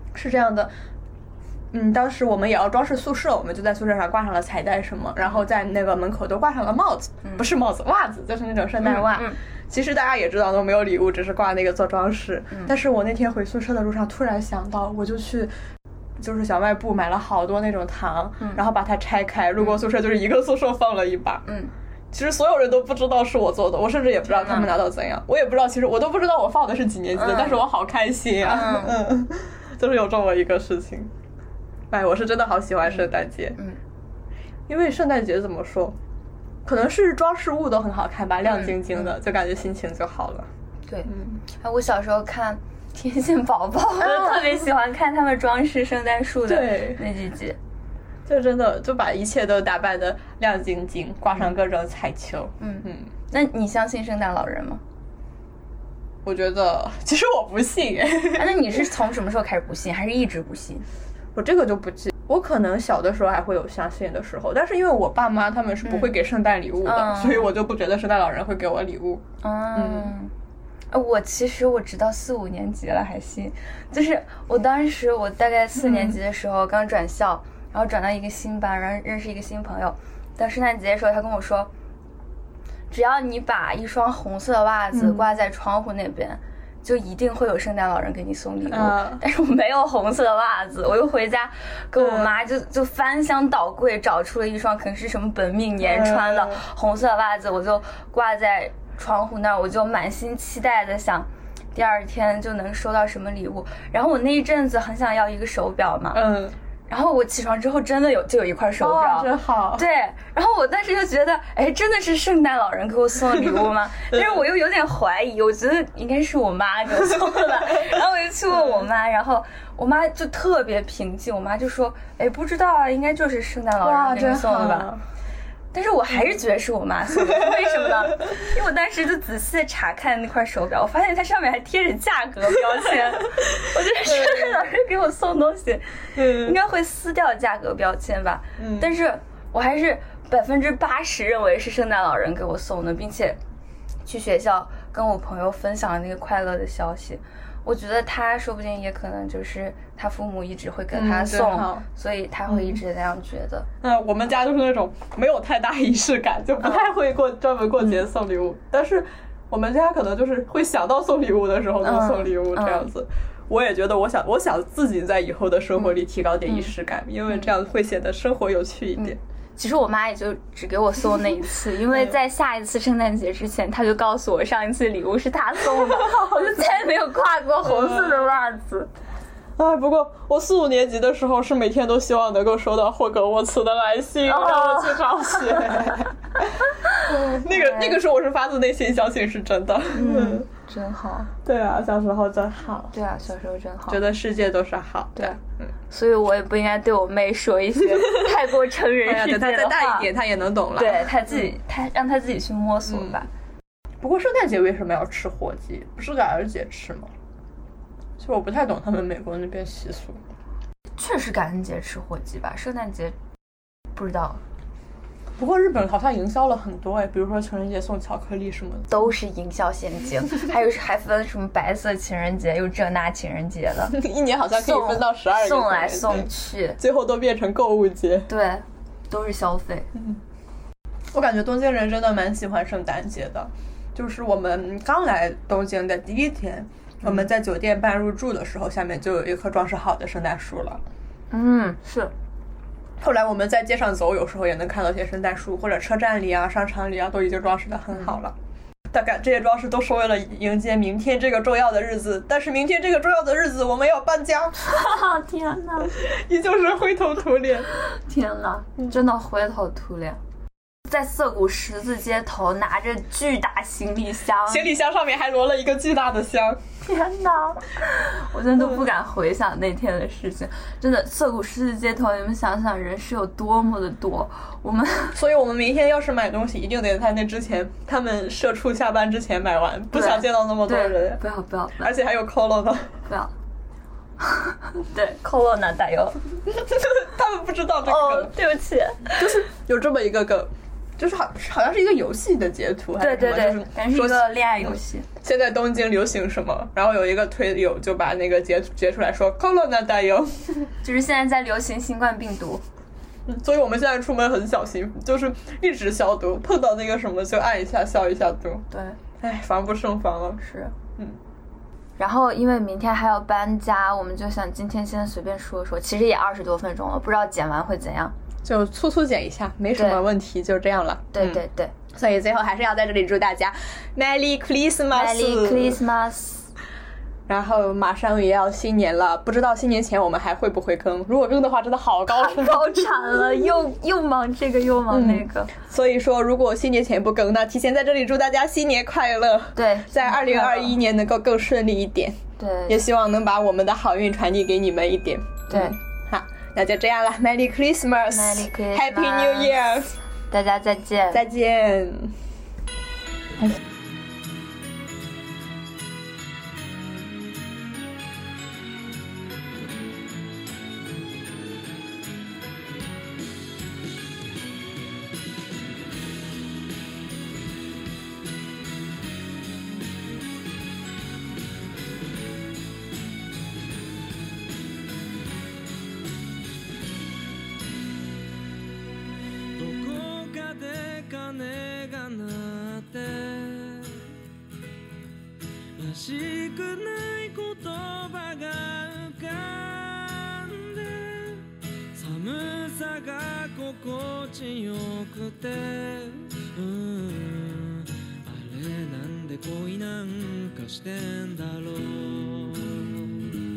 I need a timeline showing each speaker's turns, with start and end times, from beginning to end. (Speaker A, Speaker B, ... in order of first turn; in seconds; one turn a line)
Speaker A: 0.1-0.7
Speaker A: 1.7-15.5
Speaker B: 8.8-9.4
Speaker A: 16.2-21.4
Speaker B: 21.4-21.7
Speaker A: 22.1-31.1
Speaker B: 24.3-24.7
Speaker B: 27.1-27.6
Speaker B: 28.4-29.0
Speaker A: 31.9-33.6
Speaker A: 34.7-36.0
Speaker A: 36.6-40.5
Speaker B: 38.5-39.1
Speaker B: 40.9-47.6
Speaker A: 41.1-41.4
Speaker A: 44.0-44.6
Speaker A: 46.5-47.0
Speaker A: 48.2-53.1
Speaker B: 52.6-54.8
Speaker A: 56.2-58.8
Speaker B: 58.3-60.8
Speaker A: 61.3-69.2
Speaker B: 65.8-66.1
Speaker B: 66.8-67.5
Speaker B: 69.4-70.3
Speaker A: 69.7-70.1
Speaker B: 70.9-81.7
Speaker A: 75.8-76.2
Speaker B: 82.9-106.2
Speaker A: 84.9-85.3
Speaker A: 88.7-89.2
Speaker A: 92.0-92.4
Speaker A: 95.8-96.6
Speaker A: 106.1-106.5
Speaker B: 106.9-124.9
Speaker A: 108.8-109.8
Speaker A: 123.8-125.0
Speaker B: 125.7-143.4
Speaker A: 127.3-127.9
Speaker A: 134.1-134.5
Speaker A: 136.2-136.6
Speaker A: 138.6-138.9
Speaker B: 144.0-153.7
Speaker A: 150.9-151.8
Speaker A: 152.5-152.8
Speaker A: 153.8-169.2
Speaker B: 156.6-156.9
Speaker B: 161.8-162.9
Speaker B: 169.0-178.9
Speaker A: 176.0-176.6
Speaker A: 177.6-178.3
Speaker A: 179.6-190.4
Speaker B: 184.2-185.9
Speaker B: 186.9-188.0
Speaker B: 189.9-191.3
Speaker A: 191.4-192.9
Speaker B: 192.9-194.0
Speaker A: 193.9-195.7
Speaker B: 195.9-200.1
Speaker A: 197.9-198.3
Speaker A: 199.0-201.5
Speaker B: 200.8-203.3
Speaker A: 202.9-203.2
Speaker A: 204.0-207.1
Speaker A: 208.2-210.2
Speaker B: 210.9-213.1
Speaker B: 213.9-214.4
Speaker A: 215.4-218.9
Speaker B: 218.9-224.0
Speaker A: 223.9-228.3
Speaker B: 224.5-226.8
Speaker B: 228.3-229.9
Speaker A: 229.9-230.2
Speaker A: 231.1-240.8
Speaker B: 241.3-242.1
Speaker A: 243.0-248.3
Speaker A: 248.9-254.6
Speaker B: 254.6-256.0
Speaker A: 255.9-257.7
Speaker B: 257.8-260.2
Speaker B: 260.9-264.7
Speaker A: 264.5-266.6
Speaker B: 266.8-275.2
Speaker A: 268.6-268.8
Speaker A: 275.1-281.2
Speaker B: 279.9-281.9
Speaker A: 281.8-283.0
Speaker B: 284.2-286.2
Speaker A: 286.7-288.3
Speaker B: 287.8-289.4
Speaker A: 289.2-300.7
Speaker B: 293.0-295.1
Speaker B: 300.8-302.6
Speaker A: 303.3-308.6
Speaker B: 308.7-309.0
Speaker A: 309.2-310.4
Speaker B: 310.4-310.7
Speaker B: 312.0-318.1
Speaker A: 318.4-325.8
Speaker B: 319.7-320.0
Speaker B: 321.1-321.7
Speaker B: 324.9-326.5
Speaker A: 327.3-333.1
Speaker B: 332.1-335.5
Speaker A: 334.9-350.0
Speaker B: 339.6-340.8
Speaker B: 342.4-342.8
Speaker B: 345.5-345.8
Speaker B: 348.1-349.7
Speaker B: 350.3-351.2
Speaker A: 351.1-352.2
Speaker C: 379.5-384.1
Speaker C: 385.8-403.3